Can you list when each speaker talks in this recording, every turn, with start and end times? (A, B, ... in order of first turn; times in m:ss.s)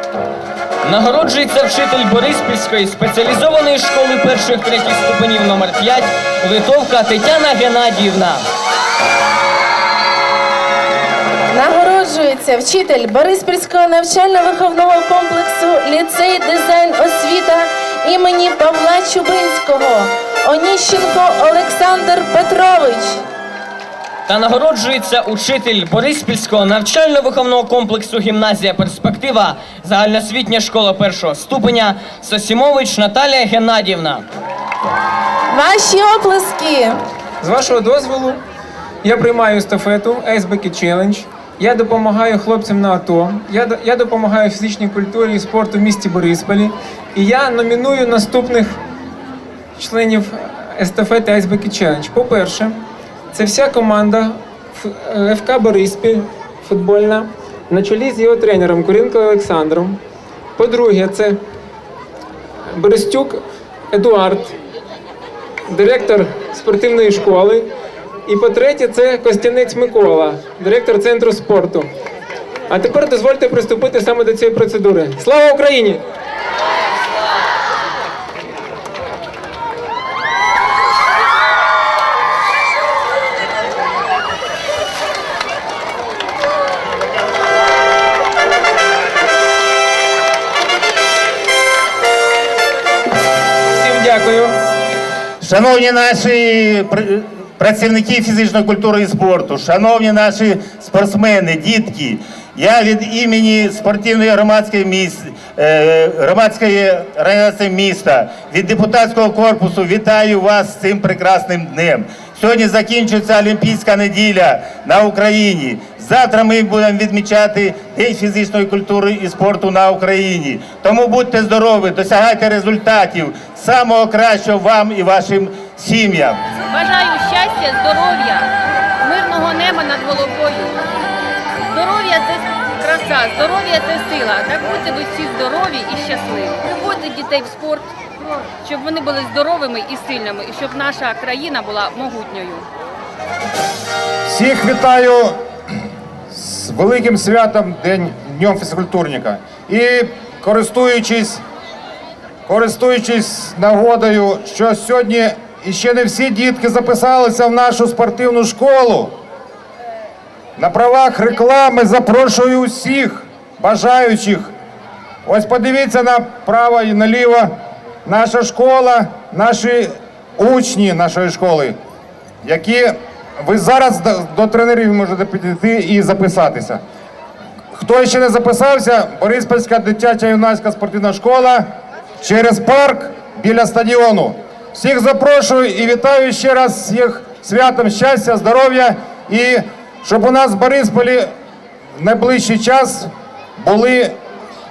0:00.8-0:08.4 A
0:11.5-0:23.2 B
0:24.3-0:34.2 A
0:35.5-0:37.0 B
0:37.4-0:38.4 C
0:39.0-0:48.8 C
0:49.8-0:52.8 C
0:53.3-1:00.0 C
1:00.6-1:01.4 C
1:02.7-1:04.6 C
1:05.7-1:07.7 C
1:08.3-1:11.9 C
1:12.7-1:16.0 C
1:33.7-1:34.6 C
1:35.4-2:06.4 D
2:06.7-2:08.5 E
2:09.0-2:10.8 E
2:11.7-2:22.7 E
2:24.3-2:25.4 F
2:26.3-2:31.4 F
2:32.4-2:39.2 F
2:40.6-2:44.5 F
2:45.2-2:51.8 F
2:52.4-2:56.8 F
2:57.7-3:01.7 F
3:02.2-3:11.3 F
3:12.0-3:14.2 F